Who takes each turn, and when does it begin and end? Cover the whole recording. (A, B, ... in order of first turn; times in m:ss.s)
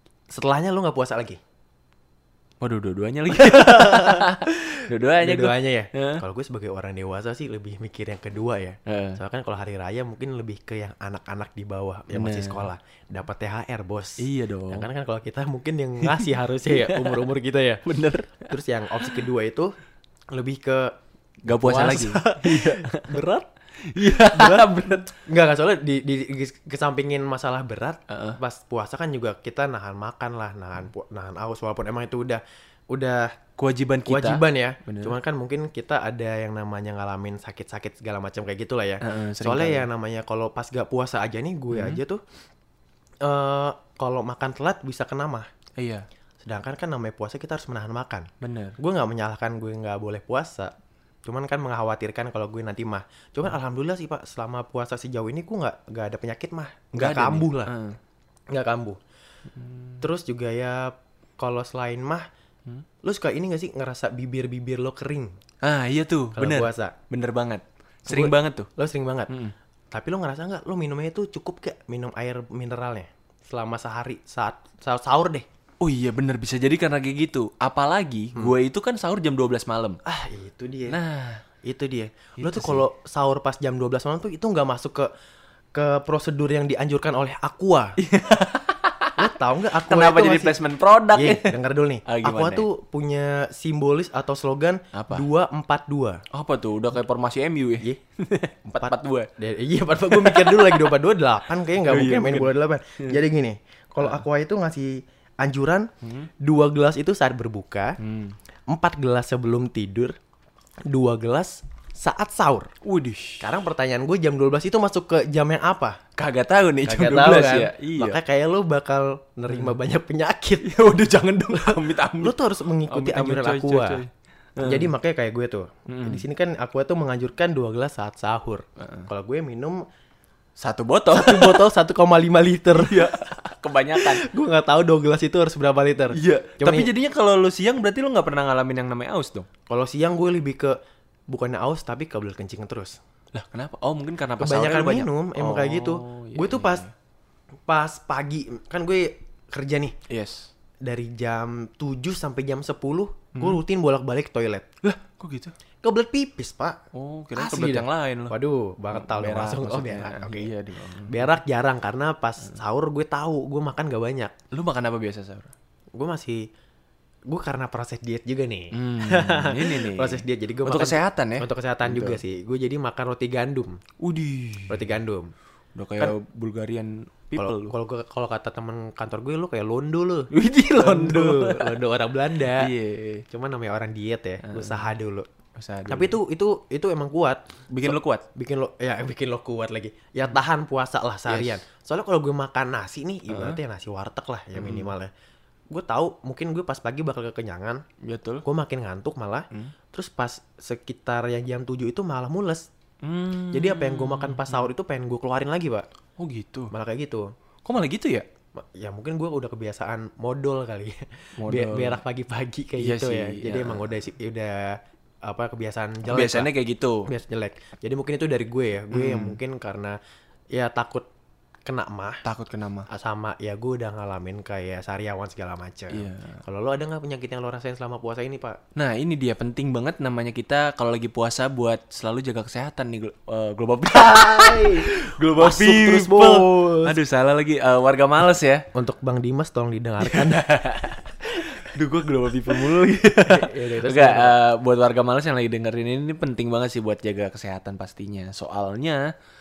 0:00.3-0:01.4 A
0:02.6-0:06.2 B
0:03.3-0:17.8 A
0:08.9-0:09.2 B
0:12.1-0:12.7 B
0:14.2-0:14.9 B
0:16.0-0:17.3 B
0:17.8-0:18.5 B
0:18.4-0:19.7 A
0:20.3-0:23.5 A
0:21.4-0:23.1 B
0:23.8-0:25.1 B
0:24.1-0:33.3 A
0:28.1-0:28.4 B
0:33.6-0:35.2 B
0:34.0-0:42.2 A
0:39.0-0:39.9 B
0:41.7-0:42.0 B
0:43.2-0:45.5 A
0:45.8-0:46.0 B
0:46.4-0:50.7 A
0:48.4-0:48.8 B
0:51.2-0:57.7 A
0:57.0-0:58.0 B
0:58.5-0:59.0 A
0:59.5-1:00.0 B
1:00.0-1:02.3 A
1:03.0-1:05.3 A
1:05.6-1:08.7 B
1:06.4-1:07.0 A
1:08.1-1:09.3 A
1:09.3-1:09.5 B
1:09.9-1:15.5 A
1:15.8-1:20.0 B
1:20.0-1:21.0 A
1:20.9-1:21.4 B
1:21.6-1:25.1 A
1:22.4-1:22.8 B
1:25.7-1:28.0 A
1:28.0-1:29.3 B
1:29.2-1:30.6 A
1:29.8-1:32.7 B
1:31.1-1:36.2 A
1:34.9-1:35.2 B
1:36.3-1:39.3 B
1:38.8-1:45.9 A
1:40.1-1:40.9 B
1:41.8-1:42.5 B
1:46.0-1:46.3 B
1:46.4-1:48.0 A
1:48.0-1:48.4 B
1:48.7-1:50.2 A
1:50.8-1:52.7 A
1:52.8-1:53.5 B
1:53.4-1:56.0 A
1:56.2-1:58.2 B
1:56.8-2:00.7 A
2:00.6-2:04.9 B
2:02.2-2:04.0 A
2:04.6-2:09.8 A
2:05.9-2:06.2 B
2:08.8-2:09.1 B
2:10.6-2:11.7 B
2:11.1-2:13.3 A
2:12.8-2:14.2 B
2:13.9-2:16.9 A
2:16.1-2:19.5 B
2:19.7-2:20.8 A
2:21.3-2:23.0 A
2:23.3-2:26.9 B
2:24.4-2:26.9 A
2:27.7-2:30.0 A
2:30.1-2:30.5 B
2:30.8-2:34.7 A
2:33.3-2:33.6 B
2:34.8-2:35.6 B
2:35.8-2:36.8 A
2:36.9-2:38.4 B
2:37.4-2:40.5 A
2:38.9-2:41.4 B
2:41.1-2:44.3 A
2:44.5-2:45.5 B
2:46.0-2:46.5 A
2:47.3-2:53.8 A
2:48.7-2:52.2 B
2:54.0-2:54.8 B
2:54.7-2:55.3 A
2:55.8-2:57.7 B
2:57.4-3:02.7 A
3:00.3-3:01.8 B
3:02.5-3:03.2 B
3:03.3-3:05.3 A
3:04.4-3:04.9 B
3:05.6-3:06.2 B
3:05.9-3:15.1 A
3:07.7-3:08.2 B
3:11.3-3:11.6 B
3:13.3-3:13.6 B
3:14.6-3:14.9 B
3:15.7-3:17.8 A
3:18.0-3:18.4 B
3:18.4-3:22.7 A
3:23.0-3:24.7 B
3:23.5-3:25.9 A
3:26.2-3:26.7 B
3:26.7-3:27.3 A
3:27.6-3:28.2 B
3:28.6-3:36.5 A
3:31.4-3:32.0 B
3:32.8-3:33.9 B
3:36.1-3:37.1 B
3:37.1-3:40.0 A
3:38.9-3:39.4 B
3:40.5-3:41.1 A
3:41.7-3:42.2 A
3:42.2-3:42.9 B
3:42.9-3:48.6 A
3:45.9-3:46.4 B
3:48.8-3:58.7 B
3:54.0-3:57.0 A
3:58.7-4:00.4 A
4:00.0-4:09.1 B
4:03.2-4:04.4 A